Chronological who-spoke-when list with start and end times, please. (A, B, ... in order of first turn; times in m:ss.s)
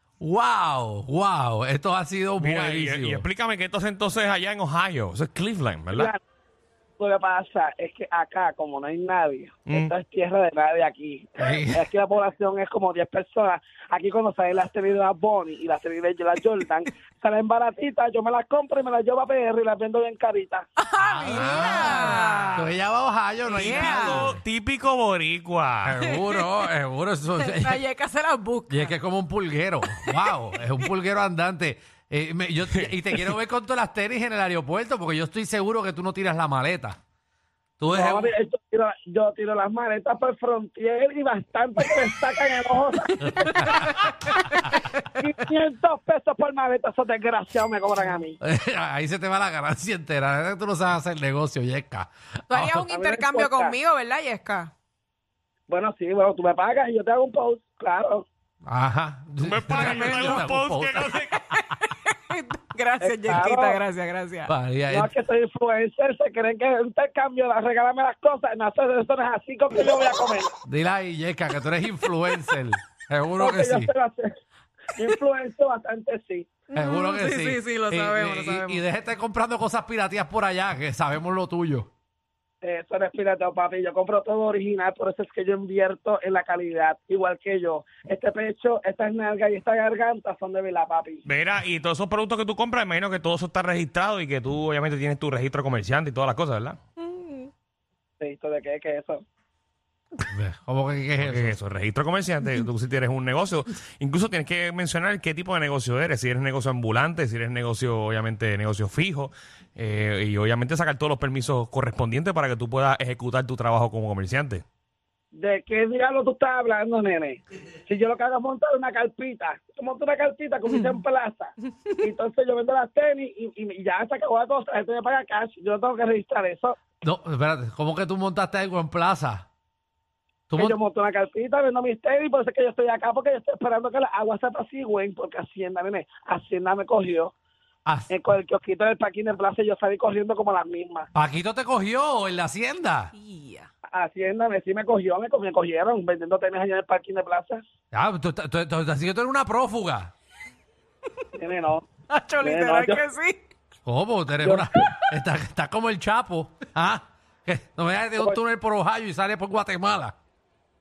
0:00.2-0:03.2 A
0:02.4-0:06.1 B
0:05.9-0:06.2 C
0:07.0-0:20.6 C
0:11.4-0:11.9 A
0:20.8-0:22.6 D
0:21.2-0:24.4 A
0:21.9-0:22.7 B
0:23.5-0:24.3 D
0:23.5-0:26.0 B
0:25.8-0:27.8 A
0:26.0-0:26.5 D
0:27.4-0:29.0 D
0:28.7-0:37.0 A
0:30.0-0:30.3 D
0:32.7-0:33.3 B
0:37.8-0:38.3 A
0:37.9-0:43.9 C
0:43.2-0:44.1 A
0:45.1-0:48.4 C
0:48.4-0:52.9 A
0:52.5-0:54.7 D
0:52.9-0:53.8 C
0:55.7-0:58.2 C
0:58.6-1:01.1 A
0:59.4-1:01.5 B
0:59.7-1:00.4 D
1:01.5-1:04.5 D
1:03.0-1:03.8 C
1:04.4-1:05.1 A
1:04.9-1:10.5 C
1:10.6-1:13.9 A
1:13.4-1:14.3 C
1:15.0-1:16.5 C
1:16.7-1:18.8 D
1:16.7-1:21.9 A
1:22.6-1:31.2 C
1:31.2-1:36.8 B
1:37.0-1:37.5 D
1:38.2-1:39.2 C
1:40.3-1:41.6 A
1:41.2-1:54.6 B
1:55.3-2:06.8 C
2:07.0-2:09.4 A
2:10.5-2:10.8 A
2:10.5-2:17.3 C
2:18.1-2:21.1 C
2:21.1-2:23.1 A
2:23.1-2:23.7 D
2:23.9-2:27.6 C
2:27.9-2:30.1 A
2:31.3-2:31.9 C
2:32.1-2:33.4 D
2:32.4-2:33.0 C
2:33.8-2:40.2 A
2:34.4-2:34.9 C